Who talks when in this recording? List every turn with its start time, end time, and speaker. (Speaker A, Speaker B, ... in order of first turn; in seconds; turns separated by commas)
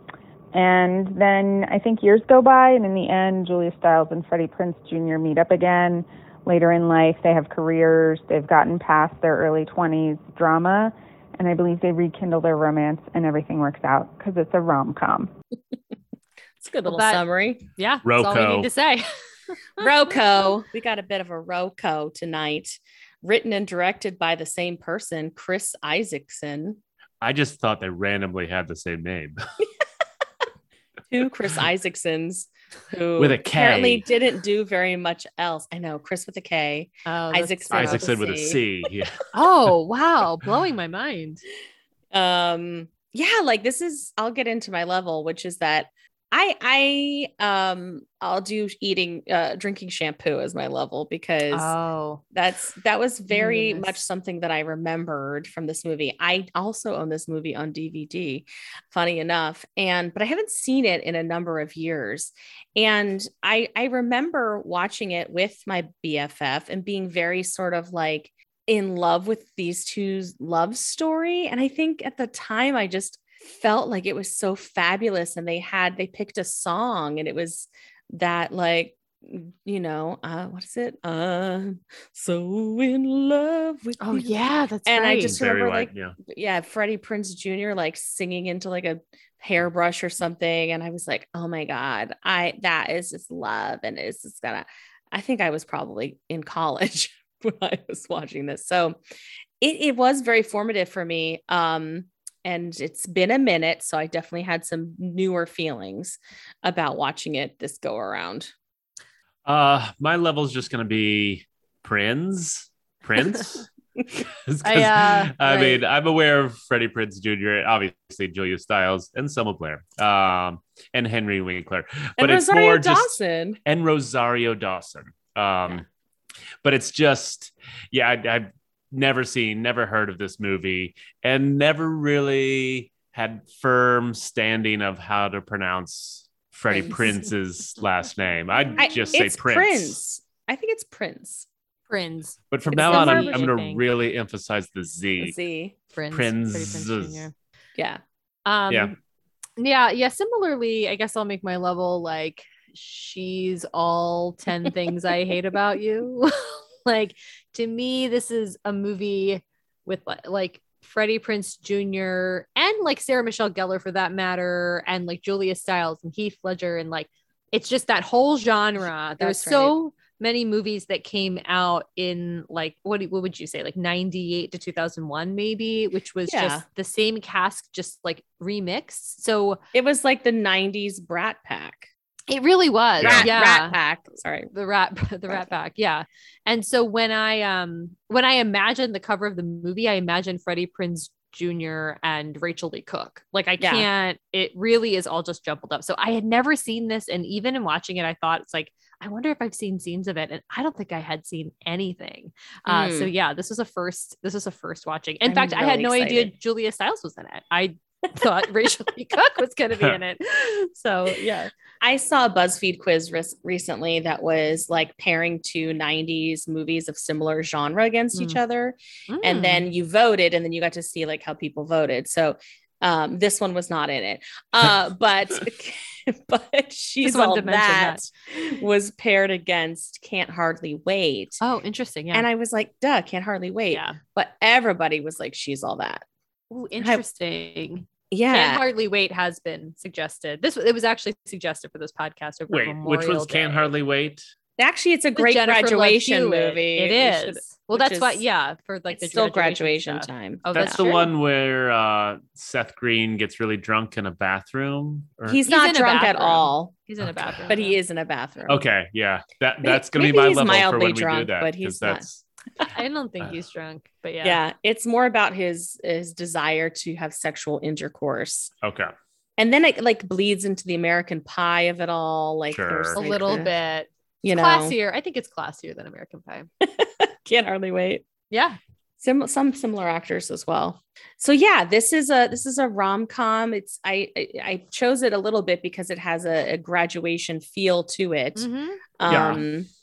Speaker A: 0.5-15.3, Speaker B: 16.6-17.6, Speaker C: 16.9-17.2, Speaker C: 17.7-19.1, Speaker D: 18.0-18.7, Speaker B: 19.8-26.8, Speaker D: 27.2-29.4, Speaker B: 31.1-38.6, Speaker D: 33.2-34.0, Speaker C: 37.0-38.1, Speaker D: 37.7-39.2, Speaker C: 39.3-41.4, Speaker B: 42.1-51.7, Speaker C: 51.5-52.2, Speaker B: 52.3-99.0, Speaker C: 53.3-54.0, Speaker C: 84.0-85.3, Speaker D: 85.2-86.2, Speaker B: 99.6-108.5, Speaker D: 109.4-125.8, Speaker C: 114.6-115.3, Speaker B: 115.4-115.8, Speaker B: 122.2-123.6, Speaker D: 126.6-140.0, Speaker B: 136.7-137.2, Speaker C: 138.6-139.0, Speaker B: 138.8-141.5, Speaker C: 141.9-143.8, Speaker D: 142.5-145.3, Speaker B: 142.7-143.5, Speaker B: 145.2-145.7, Speaker C: 145.9-147.3, Speaker D: 146.1-147.3, Speaker B: 147.8-148.0, Speaker C: 148.4-148.9, Speaker D: 148.7-148.9, Speaker C: 149.6-179.6, Speaker B: 169.2-169.7, Speaker B: 176.3-176.6, Speaker B: 179.7-181.9, Speaker C: 182.3-183.8, Speaker D: 183.0-183.3, Speaker B: 183.0-184.5, Speaker C: 184.5-211.3, Speaker B: 193.6-193.9, Speaker B: 202.7-203.1, Speaker B: 205.3-206.3, Speaker B: 211.1-231.4, Speaker C: 219.1-219.7, Speaker C: 227.0-228.0, Speaker C: 231.4-232.3, Speaker B: 232.1-236.0, Speaker C: 233.7-234.0, Speaker C: 236.5-243.7, Speaker B: 238.1-238.6, Speaker D: 242.5-244.2, Speaker B: 244.6-248.2, Speaker C: 245.2-251.1, Speaker B: 248.9-250.9, Speaker D: 250.5-255.4, Speaker B: 255.3-256.7, Speaker C: 255.4-257.8, Speaker D: 257.0-257.5, Speaker B: 257.5-258.6, Speaker D: 258.5-262.2, Speaker B: 259.6-262.0, Speaker C: 262.7-264.4, Speaker B: 264.2-268.5, Speaker D: 268.6-268.9, Speaker B: 269.4-273.5, Speaker D: 272.5-273.0, Speaker C: 272.9-276.5, Speaker B: 274.2-274.8, Speaker B: 276.6-278.0, Speaker C: 278.3-278.6, Speaker B: 279.0-288.5, Speaker C: 288.4-288.8, Speaker B: 289.0-289.7, Speaker D: 289.1-289.4